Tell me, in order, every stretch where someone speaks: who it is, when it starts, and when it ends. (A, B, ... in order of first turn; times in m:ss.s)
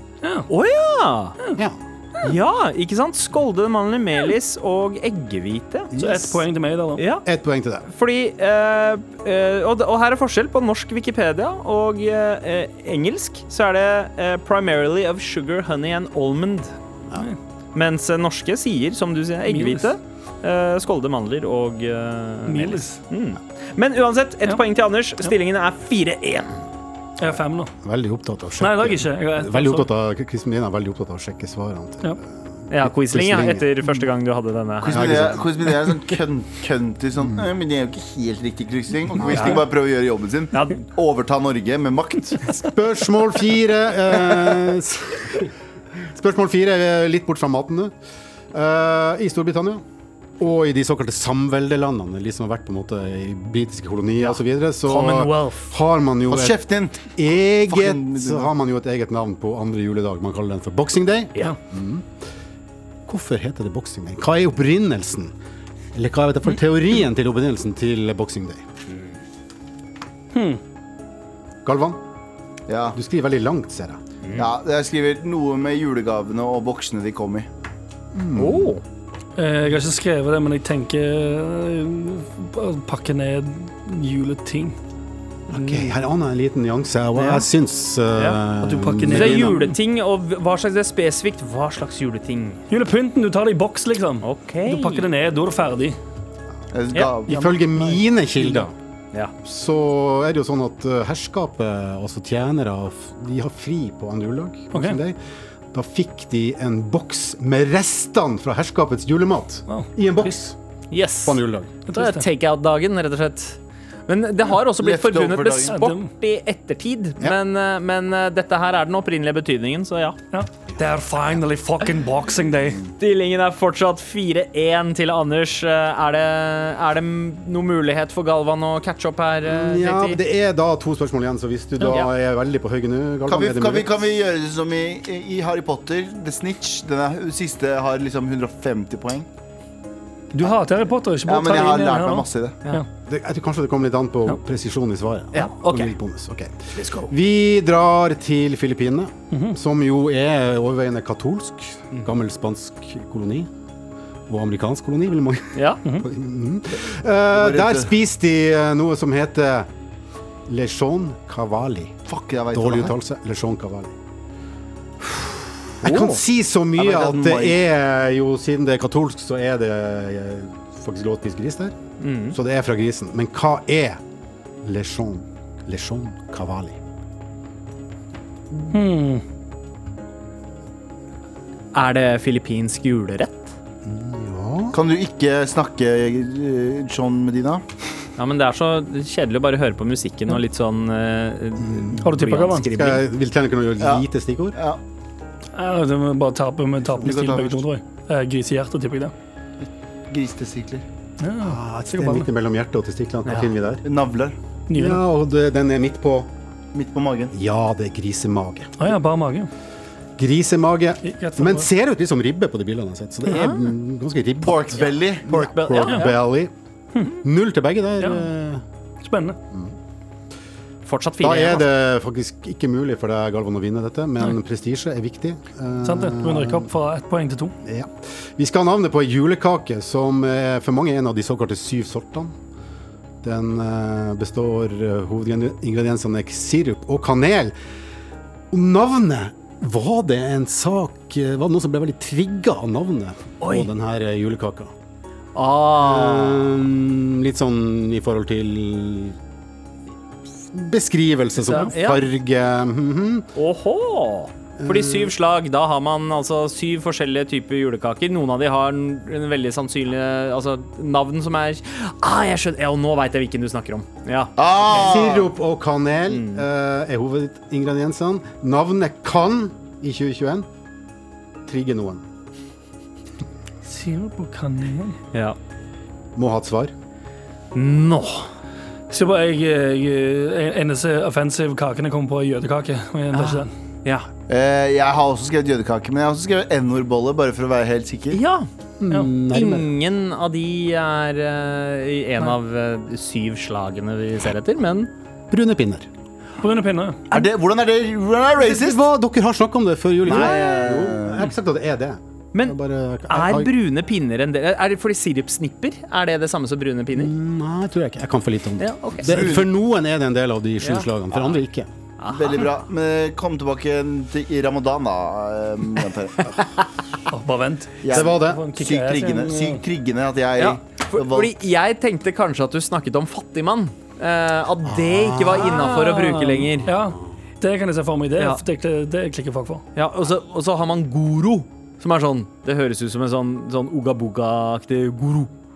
0:00.2-0:00.5 A
0:00.5-0:01.4 B
0:01.6-0:02.3 C
0:02.2-0:05.9 B
0:05.9-0:06.4 C
0:06.0-0:07.0 A
0:07.0-0:07.2 B
0:07.2-0:07.8 C
0:07.9-0:16.7 B
0:17.7-0:26.6 B
0:19.5-0:19.9 A
0:22.5-0:23.0 A
0:27.2-0:27.7 A
0:27.8-0:33.7 C
0:28.6-0:29.9 A
0:32.7-0:35.4 B
0:34.8-0:42.5 D
0:34.9-0:35.4 C
0:39.3-0:39.6 B
0:42.6-0:45.5 C
0:46.1-0:47.9 C
0:48.5-0:49.8 C
0:50.4-1:02.0 C
0:54.2-0:55.7 B
0:56.3-0:58.5 D
1:03.1-1:05.3 C
1:05.9-1:08.6 C
1:10.3-1:10.6 A
1:11.6-1:12.0 C
1:12.7-1:13.0 D
1:12.9-1:14.0 C
1:14.3-1:17.5 D
1:18.1-1:18.7 C
1:18.4-1:18.8 B
1:19.4-1:24.8 A
1:25.5-1:29.6 C
1:25.5-1:25.9 B
1:28.6-1:29.7 A
1:29.1-1:32.6 B
1:32.7-1:36.0 A
1:34.2-1:35.1 B
1:36.7-1:37.6 D
1:37.3-1:38.7 C
1:39.4-1:45.2 C
1:44.7-1:45.0 A
1:45.7-1:50.6 C
1:49.7-1:50.4 A
1:50.9-2:00.2 B
1:51.2-1:51.7 C
1:51.9-1:52.2 A
1:54.8-1:55.7 D
1:55.7-1:56.1 A
2:00.3-2:02.8 A
2:03.0-2:10.2 B
2:09.4-2:13.9 C
2:13.3-2:19.3 D
2:20.3-2:22.8 A
2:21.2-2:22.6 D
2:23.1-2:33.5 C
2:25.3-2:25.9 B
2:26.8-2:27.1 B
2:29.3-2:29.6 A
2:34.3-2:39.7 C
2:35.5-2:35.8 B
2:37.3-2:37.9 D
2:40.5-2:42.0 C
2:42.0-2:43.0 D
2:42.5-2:43.9 C
2:45.0-2:51.7 C
2:45.8-2:46.2 B
2:46.8-2:47.6 D
2:52.0-2:52.4 B
2:52.3-2:54.0 C
2:54.6-2:56.8 C
2:58.7-2:59.2 A
3:01.7-3:03.6 B
3:03.8-3:04.8 C
3:04.7-3:07.6 D
3:08.2-3:13.0 B
3:11.6-3:12.1 C
3:12.0-3:12.7 A
3:12.7-3:14.6 C
3:13.8-3:14.8 D
3:15.5-3:19.1 A
3:17.0-3:17.6 D
3:19.6-3:20.8 D
3:21.2-3:22.3 A
3:21.4-3:23.8 C
3:23.2-3:23.5 B
3:23.8-3:24.4 D
3:24.7-3:25.0 A
3:24.7-3:26.3 C
3:26.7-3:27.3 D
3:27.3-3:29.0 C
3:28.8-3:29.5 A
3:30.2-3:36.5 C
3:31.0-3:31.7 A
3:33.3-3:33.6 B
3:34.4-3:35.3 D
3:34.8-3:36.2 B
3:37.2-3:38.6 C
3:38.0-3:38.3 A
3:39.0-3:39.4 A
3:40.8-3:41.7 B
3:41.2-3:46.7 C
3:45.8-3:47.5 A
3:47.6-3:52.3 C
3:53.2-3:57.5 C
3:58.5-4:04.7 C
4:03.4-4:03.7 B
4:05.3-4:06.5 B
4:05.8-4:09.2 C
4:10.5-4:13.2 C
4:11.5-4:11.7 A
4:11.5-4:12.0 B
4:13.4-4:25.0 B
4:14.6-4:15.1 C
4:24.4-4:25.3 D
4:24.7-4:30.5 C
4:26.1-4:26.4 B
4:31.5-4:32.0 C
4:33.6-4:35.0 A
4:36.2-4:36.7 C
4:37.5-4:38.3 B
4:38.9-4:43.5 A
4:43.1-4:44.1 B
4:44.3-4:48.2 D
4:48.1-4:48.5 B
4:48.8-4:49.7 C
4:49.3-4:54.9 B
4:55.3-4:55.9 C
4:56.4-4:57.0 A
4:57.1-4:58.8 D
4:58.4-5:03.5 C
5:00.0-5:01.2 D
5:00.1-5:00.5 B
5:03.1-5:07.1 B
5:06.9-5:11.7 C
5:08.6-5:09.2 B
5:09.0-5:09.5 D
5:10.6-5:10.9 B
5:12.0-5:12.6 B
5:12.1-5:16.3 D
5:17.1-5:19.6 A
5:17.8-5:21.4 D
5:17.9-5:18.5 C
5:20.4-5:26.7 B
5:24.6-5:25.5 C
5:25.3-5:29.6 A
5:26.5-5:27.0 C
5:29.7-5:35.3 B